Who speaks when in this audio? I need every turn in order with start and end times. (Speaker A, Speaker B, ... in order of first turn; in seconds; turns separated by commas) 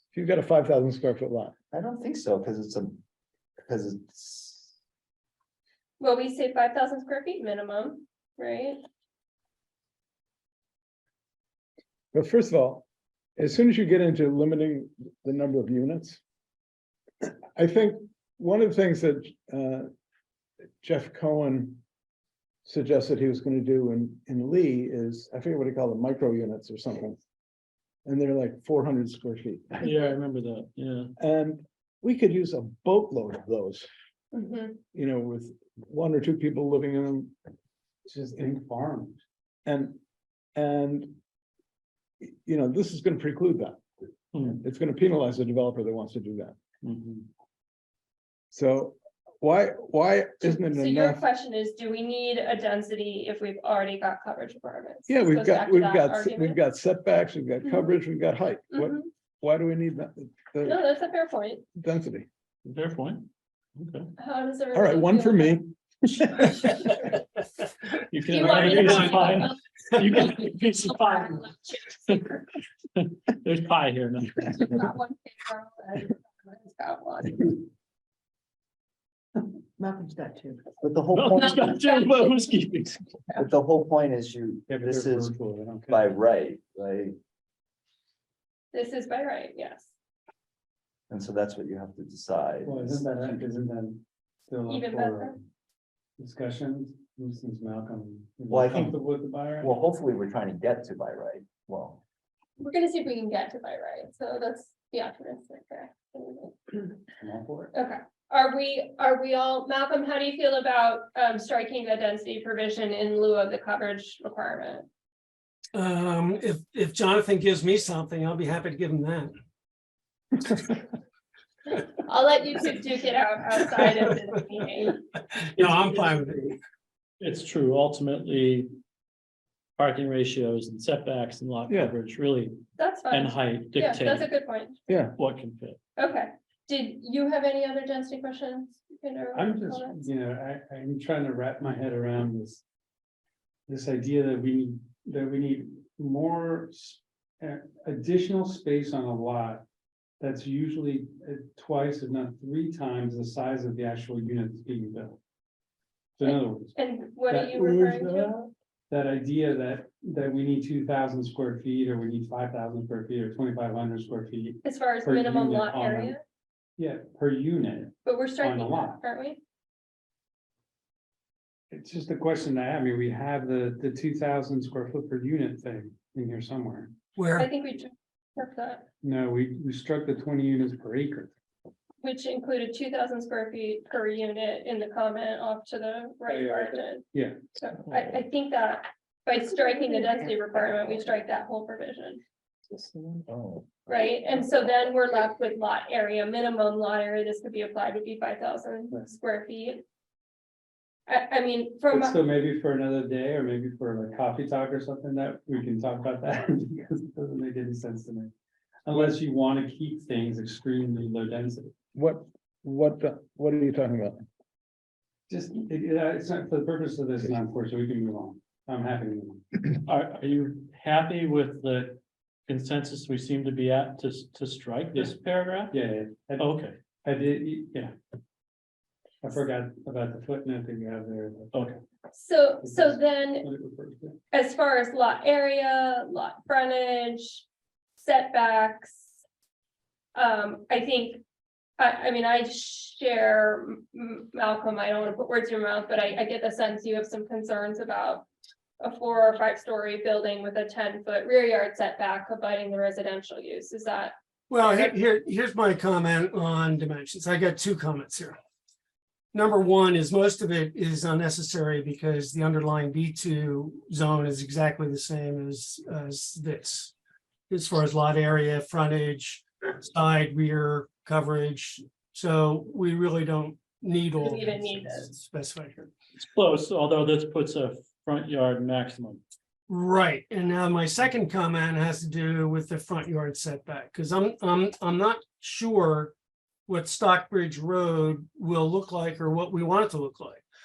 Speaker A: 0.1-1.5, Speaker B: 1.7-3.0, Speaker B: 3.6-4.7, Speaker C: 6.0-8.8, Speaker A: 12.1-12.8, Speaker A: 13.4-16.2, Speaker A: 17.6-19.9, Speaker A: 20.8-21.8, Speaker A: 22.6-27.2, Speaker A: 28.1-29.9, Speaker D: 29.8-31.1, Speaker A: 31.2-33.9, Speaker C: 34.3-34.8, Speaker A: 34.9-37.3, Speaker E: 38.1-39.2, Speaker A: 39.7-40.0, Speaker A: 40.5-41.1, Speaker A: 42.2-43.8, Speaker D: 44.3-44.6, Speaker A: 44.5-46.6, Speaker D: 46.8-47.3, Speaker A: 48.5-51.2, Speaker C: 50.4-56.6, Speaker A: 55.1-60.8, Speaker C: 58.7-59.1, Speaker C: 60.6-61.6, Speaker A: 61.8-62.3, Speaker D: 62.6-64.1, Speaker C: 64.2-65.6, Speaker A: 64.7-66.8, Speaker C: 66.4-67.0, Speaker D: 68.1-72.4, Speaker C: 68.3-69.5, Speaker F: 68.4-69.3, Speaker C: 71.1-72.0, Speaker D: 73.0-74.6, Speaker C: 74.5-77.6, Speaker B: 79.8-81.7, Speaker D: 81.1-83.1, Speaker B: 83.4-85.4, Speaker E: 84.7-86.1, Speaker B: 85.9-87.2, Speaker C: 88.7-89.9, Speaker B: 91.1-93.1, Speaker E: 92.6-95.4, Speaker C: 94.7-95.4, Speaker E: 96.2-99.8, Speaker B: 98.5-99.0, Speaker B: 99.6-102.0, Speaker C: 102.6-107.0, Speaker E: 107.2-107.7, Speaker C: 107.7-114.9, Speaker F: 115.7-119.3, Speaker C: 121.8-125.0, Speaker F: 125.3-126.6, Speaker D: 127.2-128.7, Speaker D: 129.8-134.3, Speaker A: 131.7-131.9, Speaker C: 132.8-134.8, Speaker A: 134.9-135.2, Speaker D: 135.2-135.8, Speaker C: 136.0-140.0, Speaker E: 139.3-142.6, Speaker E: 143.7-149.6, Speaker E: 150.2-155.2, Speaker E: 156.2-156.8, Speaker C: 156.2-158.3, Speaker E: 157.3-158.3, Speaker A: 157.9-158.3, Speaker E: 158.9-166.2, Speaker C: 164.6-166.2, Speaker E: 166.8-169.0, Speaker C: 168.1-169.4, Speaker E: 171.7-176.9, Speaker F: 177.2-177.5, Speaker C: 177.4-178.9, Speaker E: 179.0-181.3, Speaker C: 182.0-192.2, Speaker E: 186.3-187.4, Speaker B: 193.3-193.7, Speaker C: 193.9-199.8, Speaker C: 201.1-202.2, Speaker E: 201.9-208.3, Speaker E: 208.8-211.7, Speaker A: 211.9-214.2, Speaker E: 215.3-219.4, Speaker D: 219.8-225.8, Speaker E: 225.7-227.9, Speaker D: 226.4-226.8, Speaker E: 229.2-231.6, Speaker D: 231.5-231.8, Speaker C: 232.1-233.5, Speaker E: 232.6-234.2, Speaker C: 234.3-237.4, Speaker C: 238.0-239.1, Speaker C: 240.2-241.2, Speaker C: 241.8-248.3, Speaker C: 248.8-254.9, Speaker F: 254.5-258.4, Speaker F: 259.3-266.9, Speaker F: 267.5-275.9, Speaker C: 274.2-275.1, Speaker D: 276.2-279.2, Speaker F: 279.7-286.1, Speaker F: 286.7-290.4